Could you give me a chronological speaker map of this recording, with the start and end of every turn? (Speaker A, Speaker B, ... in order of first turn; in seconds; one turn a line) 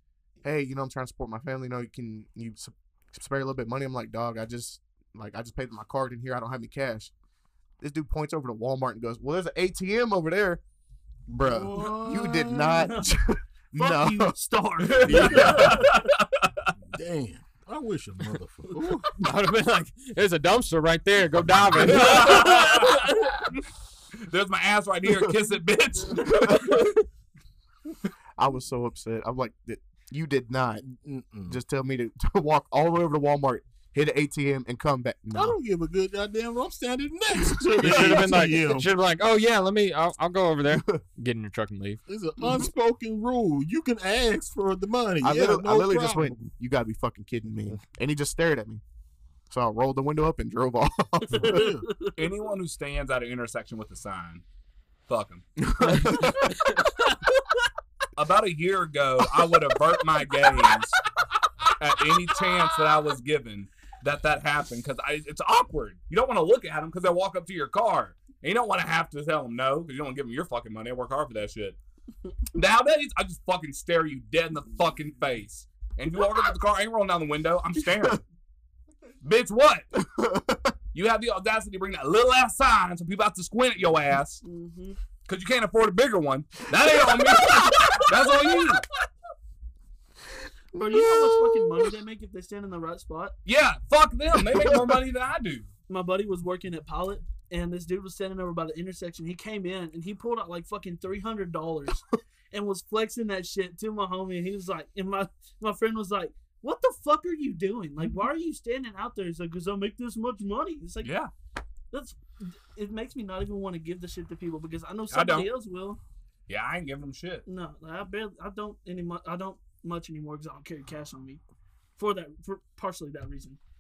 Speaker A: 0.4-7.1
Speaker A: 7.8-10.6
Speaker A: 11.3-14.3
Speaker B: 11.4-13.0
Speaker C: 11.8-12.1
Speaker C: 12.8-13.2
Speaker C: 13.7-16.0
Speaker D: 14.8-16.7
Speaker B: 14.9-15.9
Speaker B: 16.9-19.1
Speaker E: 19.1-23.2
Speaker D: 21.9-23.1
Speaker C: 22.1-23.0
Speaker D: 24.2-27.0
Speaker A: 28.4-30.8
Speaker B: 30.9-31.6
Speaker A: 31.5-35.5
Speaker B: 35.3-38.9
Speaker A: 37.4-38.5
Speaker E: 37.8-42.0
Speaker B: 42.1-46.5
Speaker A: 45.2-48.8
Speaker A: 49.5-51.7
Speaker B: 51.3-51.9
Speaker C: 51.3-52.2
Speaker D: 52.1-54.4
Speaker D: 55.1-55.5
Speaker A: 55.6-56.6
Speaker D: 58.1-61.0
Speaker D: 61.8-71.8
Speaker D: 72.5-78.2
Speaker A: 77.9-78.2
Speaker D: 79.2-79.9
Speaker A: 79.9-80.7
Speaker D: 80.9-84.4
Speaker C: 84.4-85.0
Speaker D: 85.2-88.9
Speaker A: 87.1-88.0
Speaker C: 90.7-93.3
Speaker A: 90.7-91.7
Speaker D: 93.4-95.7
Speaker A: 94.5-94.8
Speaker C: 95.9-111.1
Speaker D: 111.0-111.3
Speaker C: 111.9-116.0
Speaker D: 115.1-115.5
Speaker D: 116.5-117.5
Speaker C: 117.5-121.4
Speaker C: 122.0-123.6